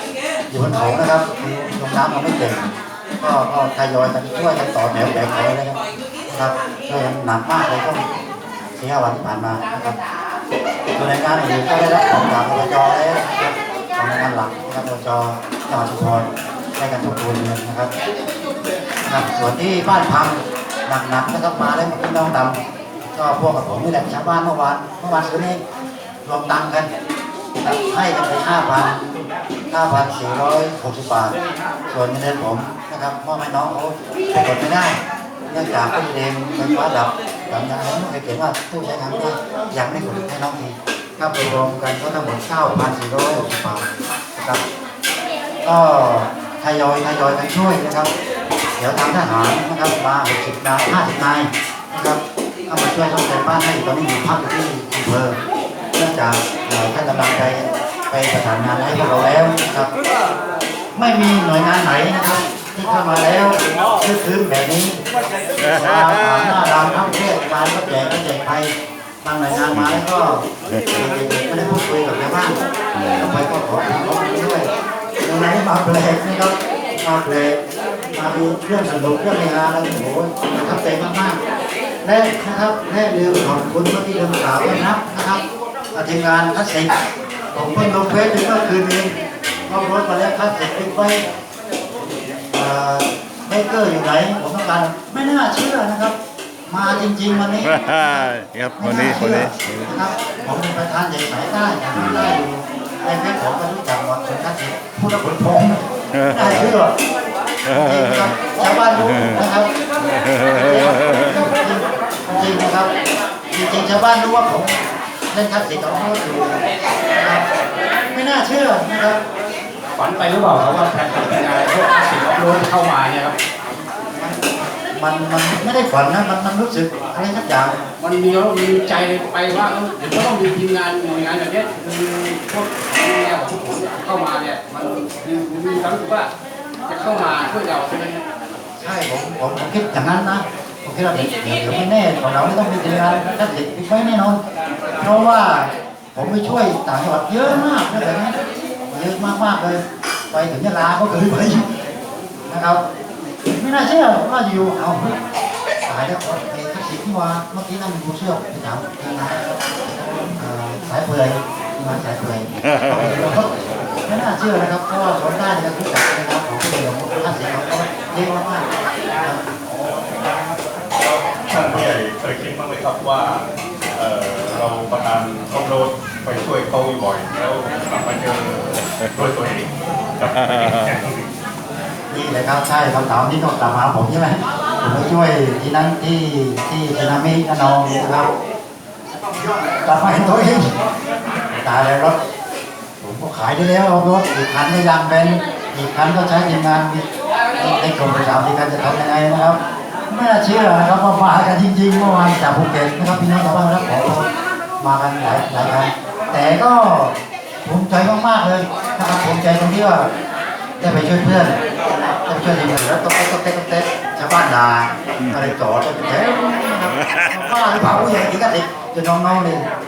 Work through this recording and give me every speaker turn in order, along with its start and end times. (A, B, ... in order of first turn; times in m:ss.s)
0:00.5-0:08.0 A
0:08.8-0:10.0 A
0:10.9-0:17.9 A
0:19.0-0:22.6 A
0:23.1-0:25.6 A
0:26.2-0:26.9 A
0:27.6-0:31.4 A
0:31.9-0:44.6 A
0:45.6-0:48.1 A
0:48.8-0:55.4 A
0:55.9-0:59.9 A
1:00.9-1:05.0 A
1:05.6-1:06.4 B
1:05.7-1:12.6 A
1:09.7-1:10.0 B
1:12.9-1:13.3 B
1:13.2-1:14.7 A
1:15.2-1:17.6 A
1:18.1-1:21.4 A
1:22.0-1:25.4 A
1:25.9-1:27.0 A
1:27.5-1:29.1 A
1:29.7-1:31.3 A
1:32.5-1:38.3 A
1:37.6-1:40.0 B
1:38.8-1:47.0 A
1:42.0-1:42.4 B
1:46.1-1:46.7 B
1:47.6-1:48.4 B
1:47.7-1:49.7 A
1:49.1-1:49.4 B
1:50.0-1:51.4 B
1:50.6-1:52.9 A
1:53.5-1:54.8 A
1:55.3-1:57.4 A
1:58.1-1:59.2 A
2:00.0-2:03.3 C
2:04.1-2:07.8 A
2:08.0-2:16.3 C
2:16.9-2:18.2 C
2:18.8-2:24.4 A
2:25.0-2:31.7 A
2:32.5-2:32.8 A
2:33.4-2:35.2 A
2:35.8-2:43.5 A
2:42.7-2:43.0 B
2:44.0-2:49.4 A
2:49.6-2:53.4 D
2:54.0-3:01.3 D
3:00.3-3:01.0 B
3:02.1-3:08.3 A
3:09.8-3:10.7 A
3:11.5-3:12.2 A
3:13.0-3:17.0 A
3:17.5-3:24.3 A
3:24.8-3:30.1 A
3:30.8-3:39.6 A